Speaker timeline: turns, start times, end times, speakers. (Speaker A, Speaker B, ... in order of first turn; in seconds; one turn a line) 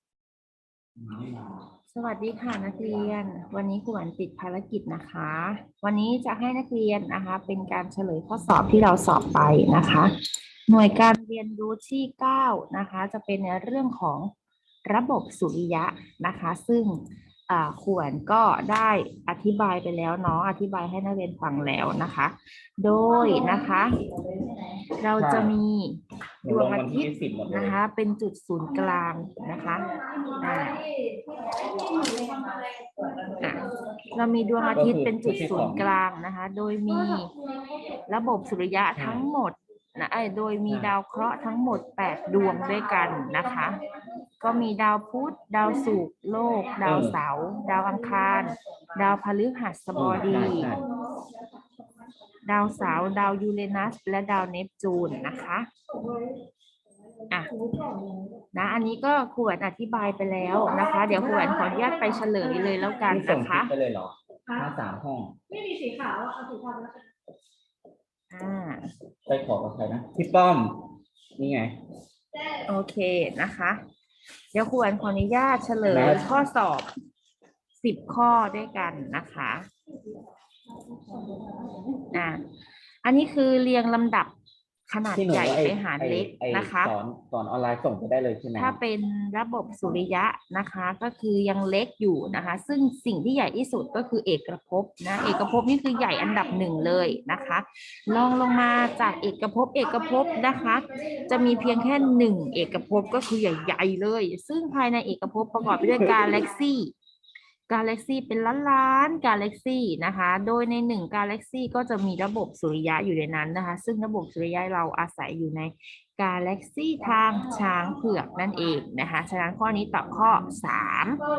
Speaker A: 1.0-1.3
Speaker B: 1.9-10.1
Speaker B: 10.7-14.3
Speaker B: 14.9-24.1
Speaker B: 24.9-29.9
Speaker A: 25.2-25.6
Speaker A: 26.4-27.8
Speaker B: 30.4-30.8
Speaker C: 31.3-33.2
Speaker B: 33.4-37.4
Speaker A: 34.8-35.9
Speaker B: 37.9-43.8
Speaker A: 38.9-39.3
Speaker A: 40.7-40.9
Speaker B: 44.4-50.9
Speaker A: 46.8-47.2
Speaker A: 50.0-50.9
Speaker B: 52.5-55.7
Speaker B: 57.3-57.6
Speaker C: 57.7-58.3
Speaker B: 58.5-63.7
Speaker A: 63.1-65.4
Speaker C: 65.6-67.0
Speaker B: 68.3-68.9
Speaker A: 69.3-71.8
Speaker B: 72.6-73.8
Speaker B: 74.5-76.9
Speaker A: 75.9-76.3
Speaker B: 77.8-79.7
Speaker B: 82.1-82.4
Speaker B: 83.0-84.3
Speaker B: 84.9-87.0
Speaker A: 85.1-88.8
Speaker B: 88.6-106.9
Speaker B: 107.7-121.2